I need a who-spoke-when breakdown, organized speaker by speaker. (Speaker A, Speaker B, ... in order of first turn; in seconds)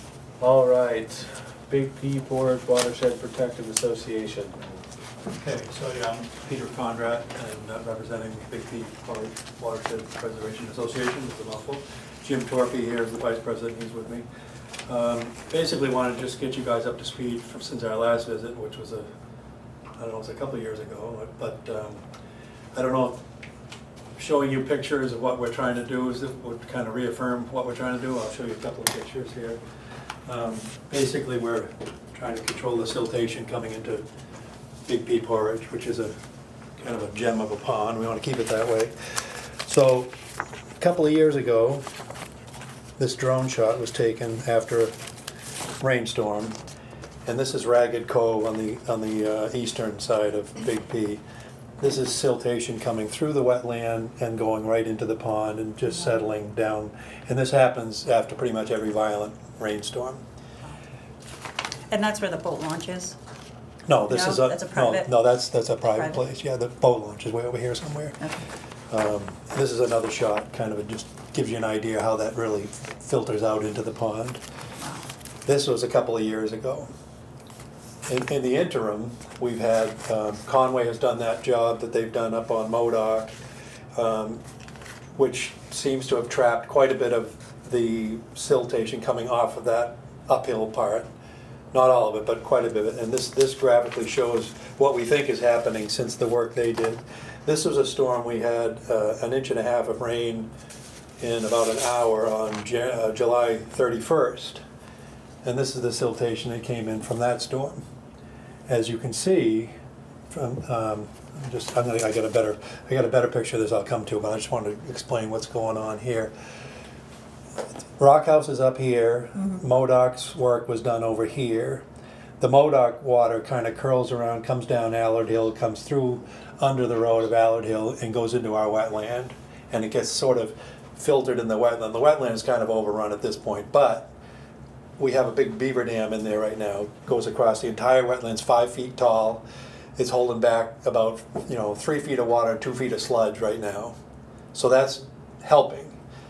Speaker A: 0.4-4.6
Speaker B: 5.3-14.3, 14.9-19.1, 20.0-22.0, 22.7-23.2, 24.2-29.6, 30.3-34.0, 34.9-36.1, 36.8-38.9, 39.7-40.1, 40.8-41.8, 43.0-44.9, 45.8-46.6, 47.2-51.2, 51.8-60.2, 63.9-68.2, 68.9-74.4, 75.5-76.9, 78.1-83.3, 84.0-84.4, 85.2-91.1, 91.7-100.5, 101.2-104.6, 105.4-107.8, 108.7-109.7, 110.3-116.3, 118.0-121.8, 122.4-134.1, 135.0-139.4, 140.0-143.9, 144.5-146.0
Speaker C: 61.9-63.2, 64.1-65.2, 65.8-66.2